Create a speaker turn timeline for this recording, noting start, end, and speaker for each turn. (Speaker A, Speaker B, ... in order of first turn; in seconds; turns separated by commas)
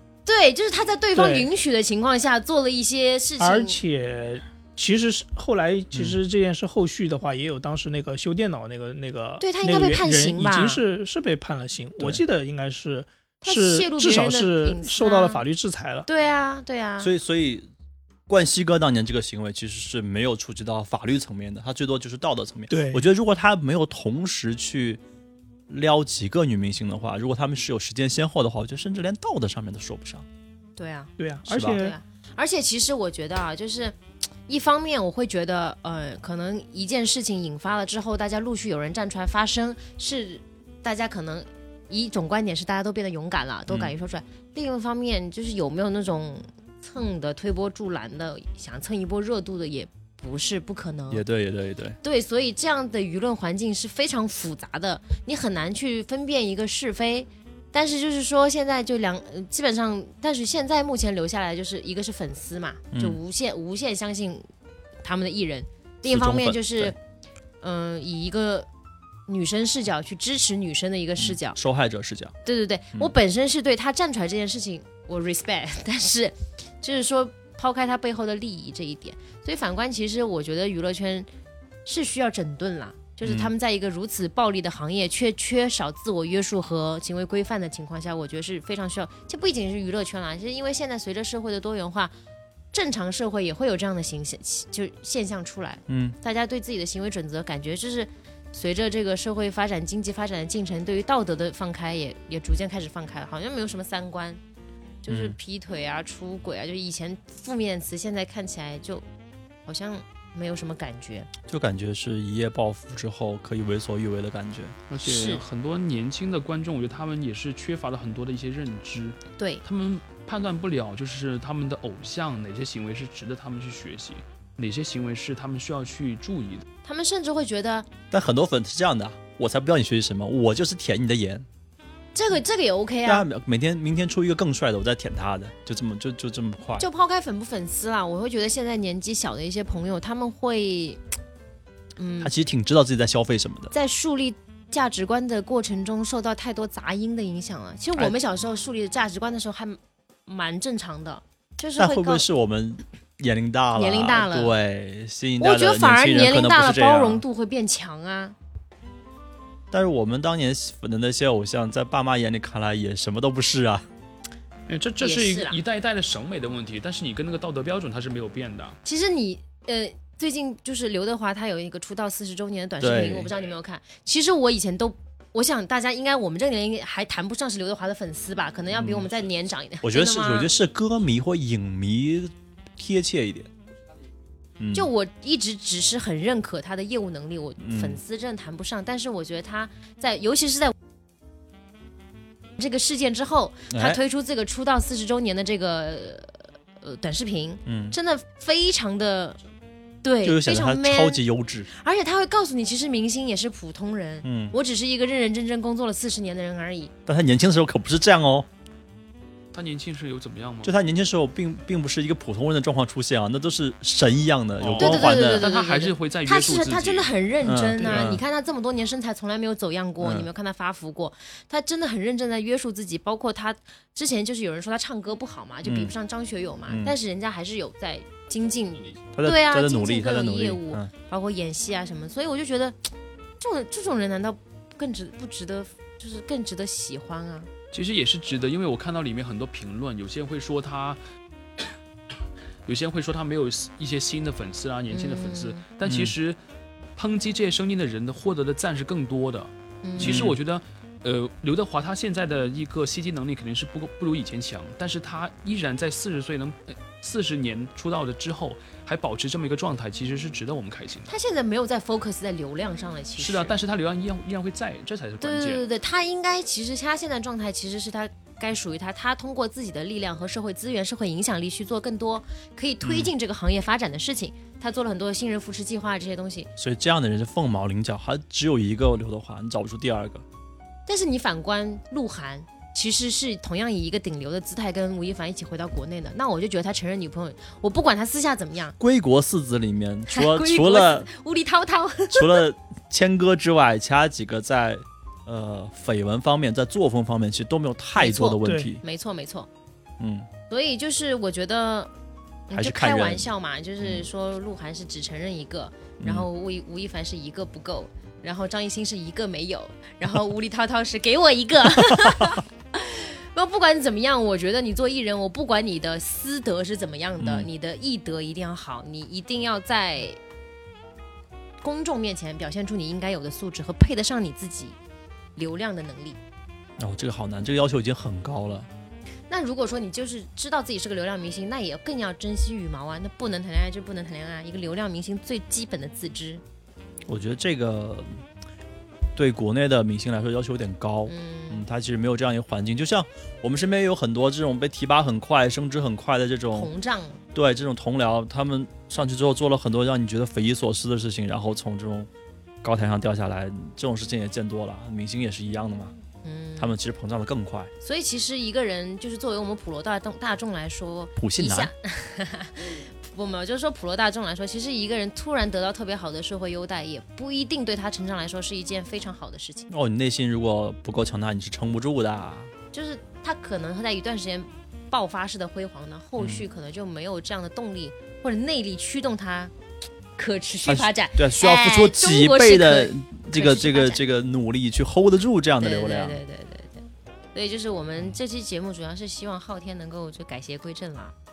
Speaker A: 0.3-3.8, Speaker B: 1.1-1.5, Speaker B: 3.4-16.1, Speaker C: 5.9-6.2, Speaker A: 9.4-10.8, Speaker C: 12.0-12.2, Speaker A: 13.4-15.4, Speaker A: 16.1-17.1, Speaker C: 17.0-17.7, Speaker C: 18.3-25.0, Speaker B: 22.7-23.1, Speaker C: 25.7-30.2, Speaker A: 30.8-51.2, Speaker B: 31.2-32.0, Speaker C: 31.5-31.9, Speaker C: 43.7-43.9, Speaker C: 51.1-52.0, Speaker A: 52.0-64.5, Speaker C: 62.9-63.2, Speaker A: 65.0-67.0, Speaker C: 66.0-66.9, Speaker A: 67.6-68.7, Speaker A: 69.3-71.6, Speaker C: 71.2-72.3, Speaker A: 72.5-81.3, Speaker A: 81.8-92.1, Speaker C: 83.2-83.5, Speaker A: 92.7-104.4, Speaker C: 95.9-96.2, Speaker A: 105.0-109.0, Speaker C: 105.1-105.4, Speaker A: 109.7-111.3, Speaker C: 111.5-114.8, Speaker D: 114.9-126.7, Speaker A: 115.0-115.4, Speaker A: 119.4-119.6, Speaker A: 126.8-127.9, Speaker C: 128.1-131.5, Speaker A: 132.2-133.3, Speaker C: 133.1-136.9, Speaker A: 136.8-141.0, Speaker A: 142.0-142.3, Speaker C: 142.2-143.7, Speaker A: 143.7-152.3, Speaker C: 151.8-157.2, Speaker A: 153.7-154.5, Speaker A: 155.4-158.3, Speaker C: 159.7-163.9, Speaker D: 164.7-168.8, Speaker A: 165.0-165.6, Speaker A: 168.8-180.5, Speaker C: 172.8-173.3, Speaker C: 178.8-179.1, Speaker C: 179.8-183.5, Speaker C: 184.6-184.9, Speaker A: 184.7-190.7, Speaker C: 187.6-188.0, Speaker A: 192.6-199.4, Speaker C: 193.7-194.0, Speaker C: 197.7-198.0, Speaker A: 200.0-201.2, Speaker C: 200.2-201.7, Speaker A: 201.7-206.9, Speaker C: 204.2-204.6, Speaker C: 207.1-208.5, Speaker D: 209.5-210.8, Speaker C: 210.6-215.4, Speaker D: 214.6-217.1, Speaker A: 214.8-237.5, Speaker C: 217.4-218.2, Speaker C: 220.0-220.3, Speaker C: 225.6-225.9, Speaker C: 226.7-226.9, Speaker C: 229.1-230.9, Speaker D: 237.7-241.0, Speaker D: 242.7-246.4, Speaker A: 244.9-245.7, Speaker C: 245.8-246.2, Speaker D: 247.0-261.1, Speaker A: 249.8-250.3, Speaker C: 250.0-250.4, Speaker A: 261.1-263.6, Speaker D: 263.2-265.6, Speaker A: 265.2-276.5, Speaker C: 272.8-273.1, Speaker C: 276.6-280.2, Speaker A: 280.9-288.8, Speaker C: 288.8-291.1, Speaker A: 290.1-292.4, Speaker C: 292.1-298.8, Speaker A: 298.0-299.5, Speaker B: 298.4-298.7, Speaker C: 300.0-300.3, Speaker A: 300.5-301.9, Speaker A: 302.5-320.2, Speaker C: 302.6-303.2, Speaker C: 306.0-306.3, Speaker C: 312.1-312.4, Speaker C: 317.2-317.5, Speaker A: 321.6-324.8, Speaker A: 325.4-326.2, Speaker C: 326.8-328.7, Speaker A: 329.3-336.4, Speaker C: 337.1-338.1, Speaker C: 339.2-346.7, Speaker A: 341.1-341.6, Speaker A: 346.5-347.2, Speaker C: 347.3-352.1, Speaker C: 352.6-355.9, Speaker A: 356.2-356.7, Speaker C: 356.6-357.7, Speaker A: 357.8-369.7, Speaker C: 361.2-361.7, Speaker C: 369.7-372.5, Speaker A: 372.7-379.5, Speaker A: 380.2-384.0, Speaker C: 380.6-386.2, Speaker A: 385.6-391.1